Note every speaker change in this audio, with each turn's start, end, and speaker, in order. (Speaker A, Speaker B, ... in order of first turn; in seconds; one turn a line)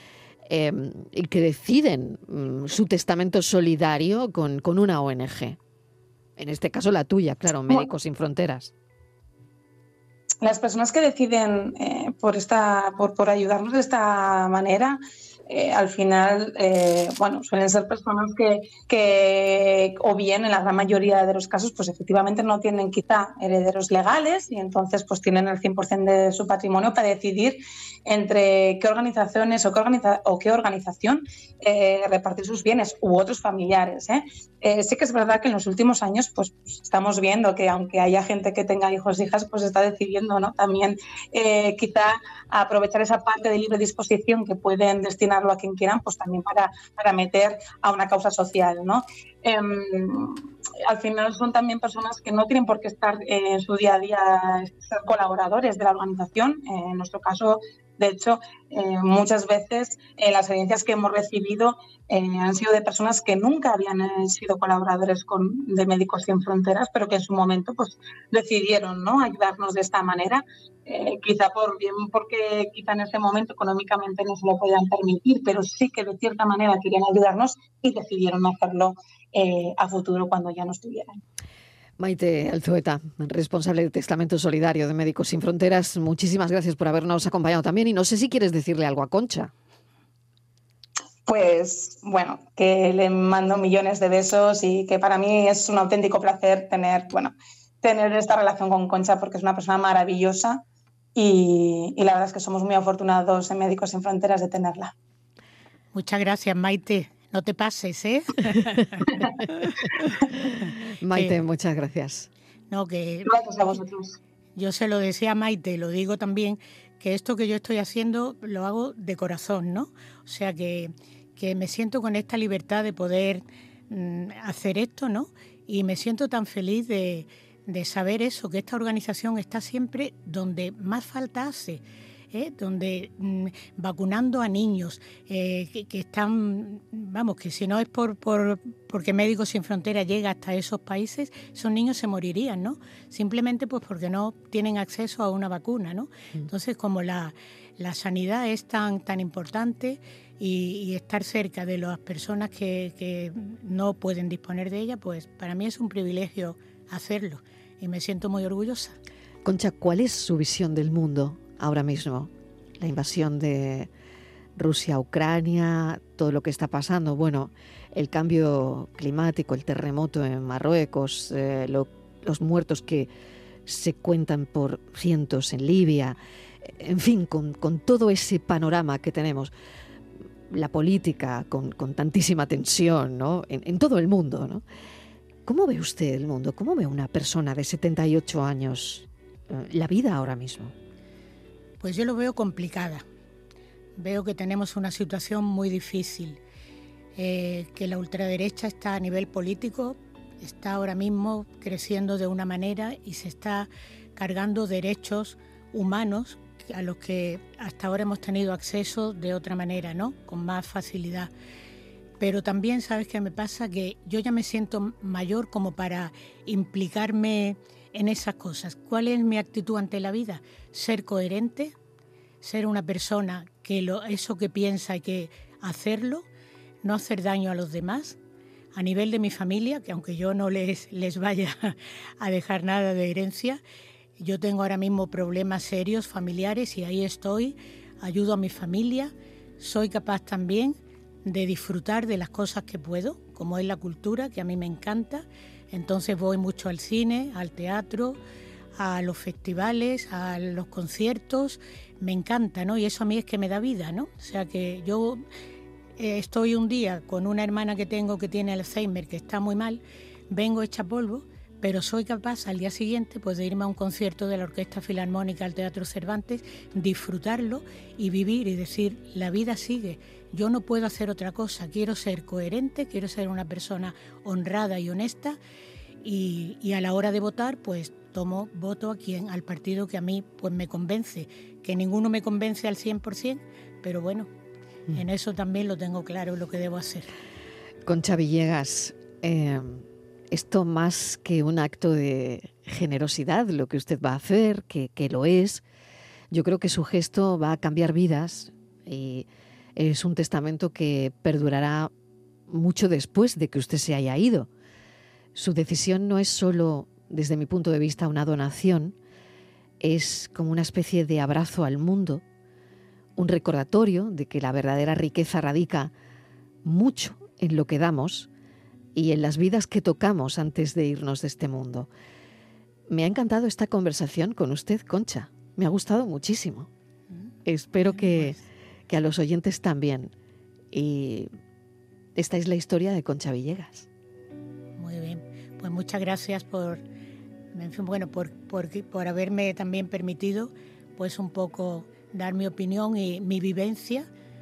Speaker A: 0.5-5.6
Speaker A: 6.4-8.7
Speaker B: 10.4-15.0
Speaker B: 15.5-81.1
Speaker A: 82.0-89.5
Speaker B: 91.3-100.6
Speaker B: 101.2-104.9
Speaker C: 105.9-109.6
Speaker A: 111.0-112.3
Speaker C: 112.7-113.4
Speaker B: 113.3-114.2
Speaker C: 114.6-159.0
Speaker A: 159.4-163.9
Speaker A: 164.6-173.1
Speaker A: 173.7-179.5
Speaker A: 180.5-184.6
Speaker A: 185.4-190.7
Speaker C: 191.8-193.0
Speaker C: 194.0-196.4
Speaker C: 197.2-211.3
Speaker C: 212.2-221.8
Speaker C: 222.4-226.3
Speaker C: 226.8-228.2
Speaker C: 228.7-233.6
Speaker C: 234.2-248.2
Speaker C: 248.8-255.2
Speaker C: 256.0-275.4
Speaker C: 276.0-284.3
Speaker C: 284.9-287.1
Speaker A: 287.9-295.6
Speaker A: 296.3-301.9
Speaker A: 302.5-304.5
Speaker A: 305.4-309.0
Speaker A: 309.8-312.2
Speaker A: 313.2-315.9
Speaker A: 316.6-318.3
Speaker A: 318.9-321.9
Speaker A: 322.9-326.7
Speaker A: 327.4-328.4
Speaker C: 327.9-328.4
Speaker A: 328.9-330.1
Speaker A: 330.7-331.3
Speaker A: 332.2-333.9
Speaker C: 334.8-336.8
Speaker C: 337.5-344.1